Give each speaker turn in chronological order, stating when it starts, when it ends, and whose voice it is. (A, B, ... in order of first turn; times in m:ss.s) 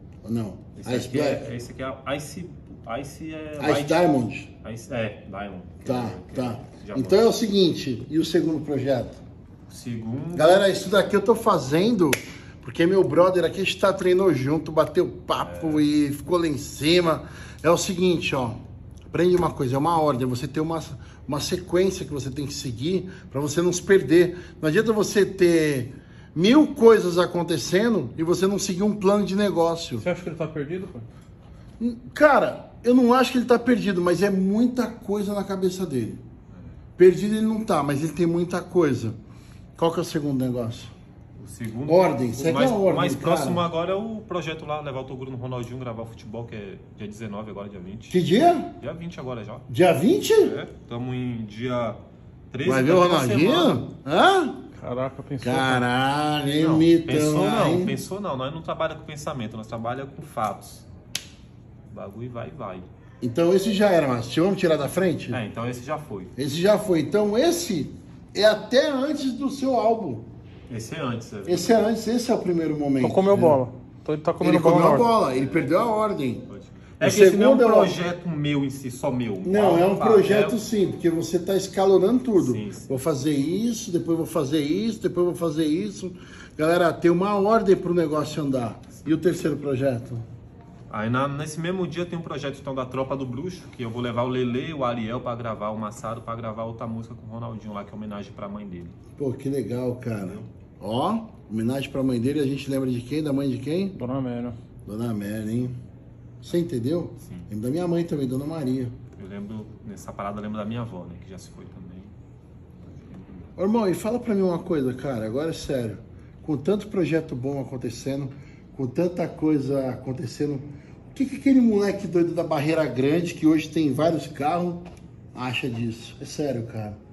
0:00.2-0:01.5 A
0:00.8-0:07.3 B
0:03.6-0:04.5 A
0:05.8-0:09.2 A
0:09.7-0:10.8 B
0:10.3-0:30.1 A
0:15.4-0:15.9 B
0:30.0-0:31.1 C
0:31.8-0:36.2 A
0:37.0-0:39.2 A
0:39.8-0:40.9 A
0:41.4-0:48.2 B
0:41.9-0:43.7 A
0:48.1-0:48.8 A
0:48.8-0:49.7 B
0:49.7-0:50.6 A
0:50.3-0:52.0 B
0:52.5-0:53.9 B
0:52.6-0:54.6 A
0:54.8-0:55.8 C
0:55.4-0:58.0 A
0:56.6-1:00.9 B
1:01.9-1:02.9 B
1:03.2-1:05.4 A
1:05.3-1:06.3 B
1:06.4-1:10.3 A
1:10.7-1:11.9 B
1:11.5-1:13.6 A
1:13.0-1:15.1 C
1:14.4-1:16.5 A
1:15.3-1:15.8 B
1:16.5-1:20.6 B
1:17.0-1:18.0 A
1:19.4-1:30.2 A
1:22.4-1:22.9 B
1:30.9-1:39.0 B
1:39.2-1:44.0 A
1:44.0-1:44.6 C
1:44.9-1:45.8 A
1:46.4-1:49.0 A
1:47.2-1:47.5 B
1:49.2-1:52.1 B
1:52.8-1:53.5 B
1:53.6-2:07.0 A